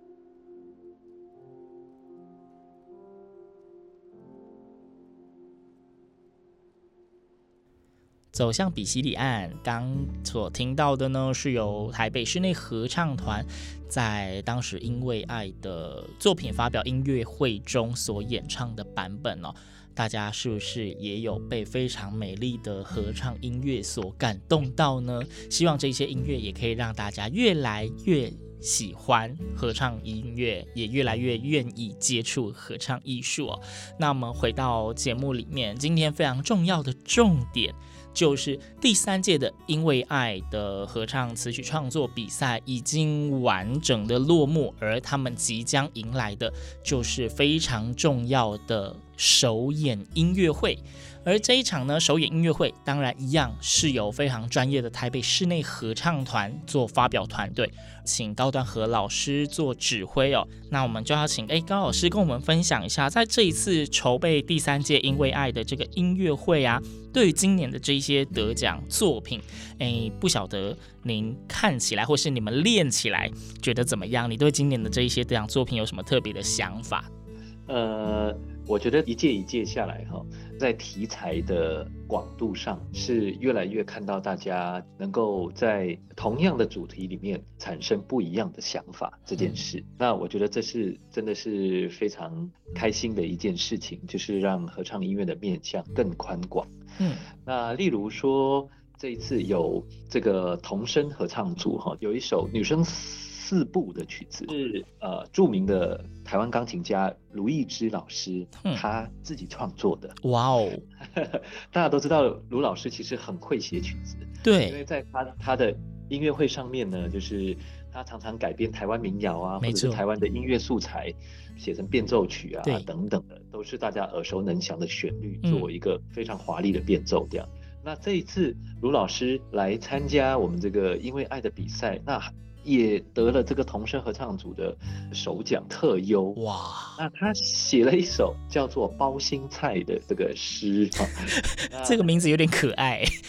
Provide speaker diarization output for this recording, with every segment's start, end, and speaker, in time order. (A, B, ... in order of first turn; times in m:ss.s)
0:08.3-1:17.1 A
1:17.7-1:36.8 B
1:29.4-1:29.6 A
1:37.0-1:37.3 A
1:37.4-1:50.2 B
1:50.2-1:50.8 A
1:51.0-2:16.4 B
1:54.4-1:54.8 A
1:59.6-2:00.0 A
2:05.4-2:05.7 A
2:16.4-2:17.0 A
2:17.0-2:22.1 B
2:21.4-2:23.1 A